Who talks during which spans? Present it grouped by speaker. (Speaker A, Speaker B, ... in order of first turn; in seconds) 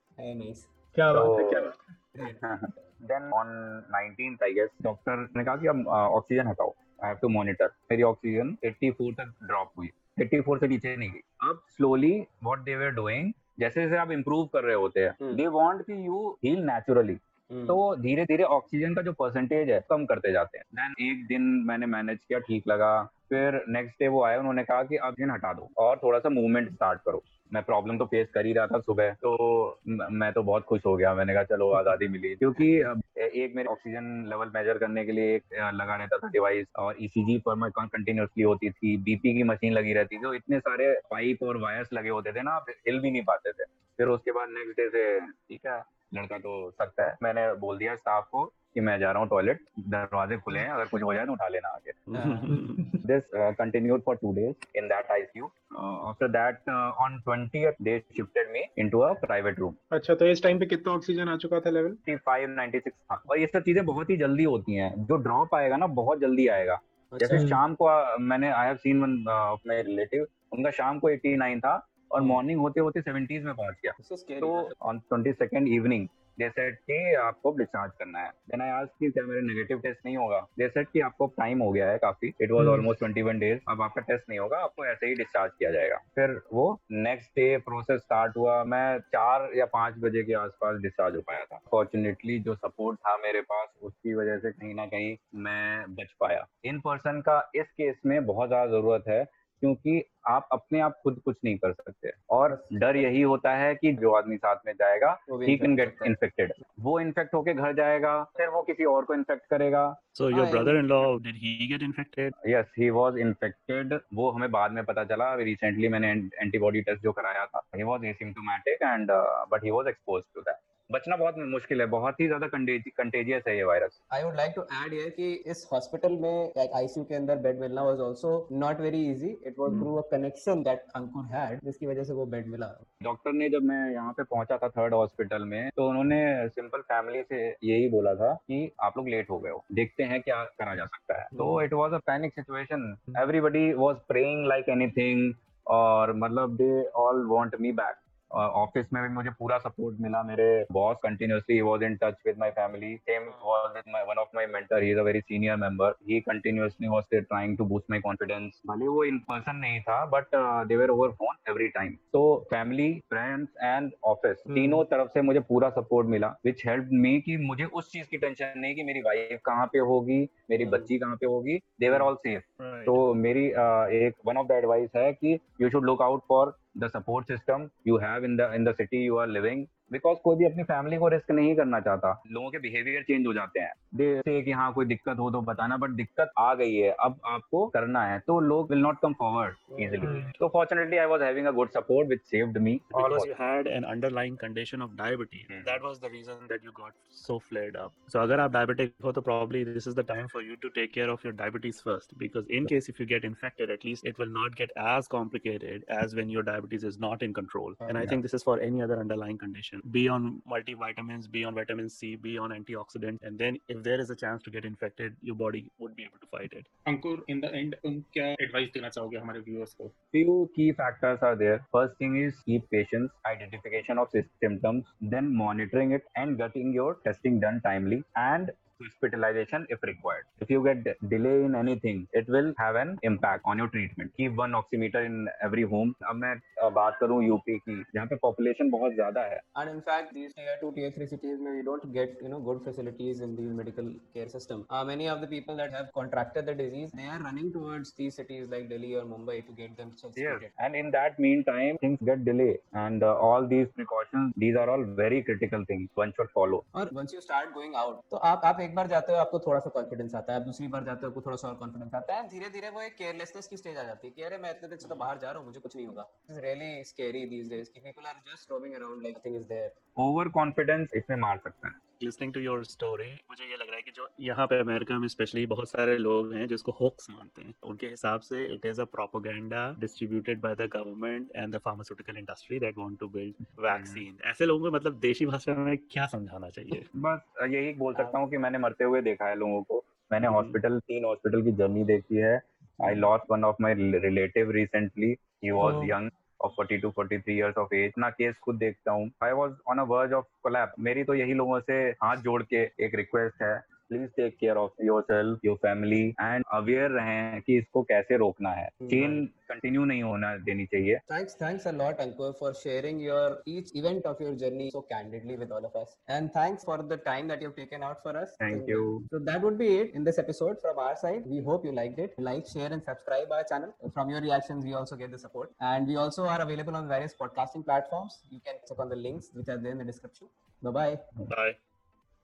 Speaker A: 0.2-0.7, 2.1-2.4, 17.5-17.8, 52.1-52.5, 67.1-67.5, 72.2-72.4, 74.0-74.7, 102.5-102.8, 105.3-106.1, 110.3-110.8, 124.1-132.8, 170.6-170.9, 189.7-190.0, 207.8-208.2, 239.6-250.5, 256.7-269.7, 308.8-309.2, 311.1-331.0
Speaker B: 0.9-1.8, 52.5-53.0, 59.9-62.0, 82.6-82.9
Speaker C: 1.1-1.7, 2.2-52.0, 53.0-59.8, 62.0-110.0, 112.4-124.0, 133.0-193.3, 195.5-195.8, 220.1-239.4, 250.2-256.6, 270.0-271.8, 283.7-284.0, 286.9-311.0, 318.4-319.0
Speaker D: 52.1-52.8, 110.1-112.3, 172.6-173.1, 190.0-190.3, 192.9-216.7, 272.0-286.9, 290.2-290.5, 331.2-331.6
Speaker E: 216.8-219.9